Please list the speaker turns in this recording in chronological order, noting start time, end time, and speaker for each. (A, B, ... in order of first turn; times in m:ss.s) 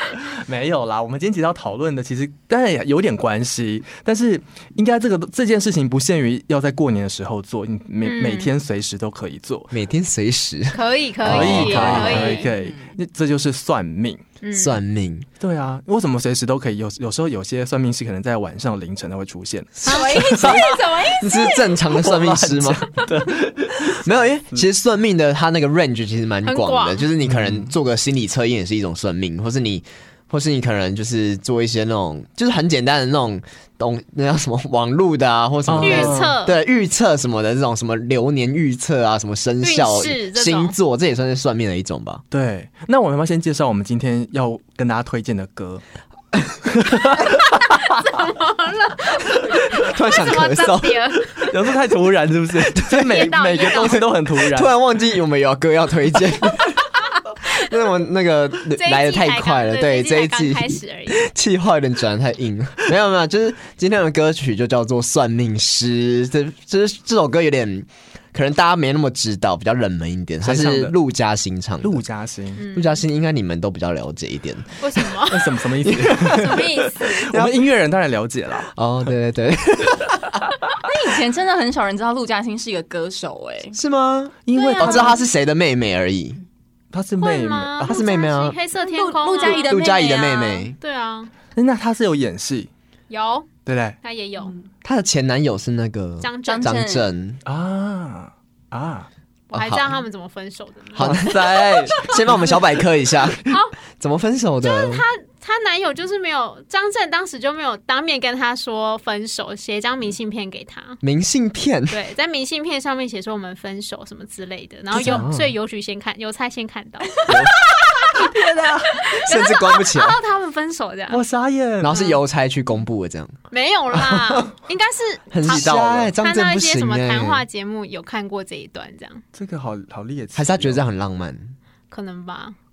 0:00.1-0:09.7 A
0:08.0-0:08.5 B
0:09.7-0:12.4 C
0:10.7-0:12.5 B
0:11.2-0:14.2 A
0:12.0-0:12.9 D
0:14.4-0:14.8 B
0:14.5-0:15.3 C
0:15.4-0:20.7 A
0:19.8-0:21.5 B
0:19.8-0:21.6 D
0:20.0-0:20.6 C
0:21.2-0:23.0 C
0:21.8-0:24.6 A
0:23.9-0:42.2 C
0:26.4-0:27.0 B
0:27.2-0:27.7 A
0:35.7-0:36.3 A
0:35.8-0:36.5 B
0:39.6-0:40.7 B
0:42.3-0:45.8 A
0:46.6-0:47.7 A
0:47.8-0:51.5 B
0:49.7-0:51.5 C
0:51.5-0:54.7 A
0:52.7-0:53.3 C
0:52.9-0:54.1 B
0:54.4-0:56.8 C
0:57.5-1:12.0 C
0:58.7-1:01.2 B
1:10.4-1:10.9 A
1:11.8-1:12.6 A
1:12.6-1:13.0 B
1:12.7-1:15.2 C
1:14.8-1:15.6 B
1:15.3-1:18.7 A
1:15.8-1:17.6 C
1:16.2-1:17.2 B
1:18.7-1:20.4 C
1:20.8-1:23.8 D
1:23.7-1:26.4 C
1:24.4-1:25.2 A
1:24.5-1:25.2 B
1:26.9-1:28.0 A
1:27.2-1:29.9 B
1:27.8-1:28.6 C
1:28.8-1:30.6 D
1:29.4-1:30.8 C
1:30.8-1:31.3 B
1:31.5-1:32.7 A
1:33.1-1:33.5 B
1:33.6-1:34.0 A
1:34.0-1:34.5 B
1:34.8-1:37.4 C
1:36.2-1:36.8 B
1:36.4-1:37.0 D
1:37.4-1:39.1 A
1:39.5-1:41.3 B
1:39.5-1:40.0 C
1:40.9-1:45.0 C
1:41.0-1:42.6 A
1:43.4-1:43.7 B
1:44.6-1:51.0 B
1:51.0-1:52.0 C
1:51.9-1:57.5 B
1:54.9-1:55.5 C
1:57.2-1:57.7 C
1:58.1-1:59.1 A
1:58.9-2:01.2 B
1:59.0-2:00.2 C
2:01.1-2:02.0 A
2:01.8-2:03.4 C
2:01.9-2:02.2 B
2:03.5-2:09.2 B
2:03.9-2:04.5 C
2:05.3-2:07.4 C
2:05.4-2:06.1 A
2:09.3-2:10.8 A
2:10.3-2:11.6 C
2:11.9-2:12.5 B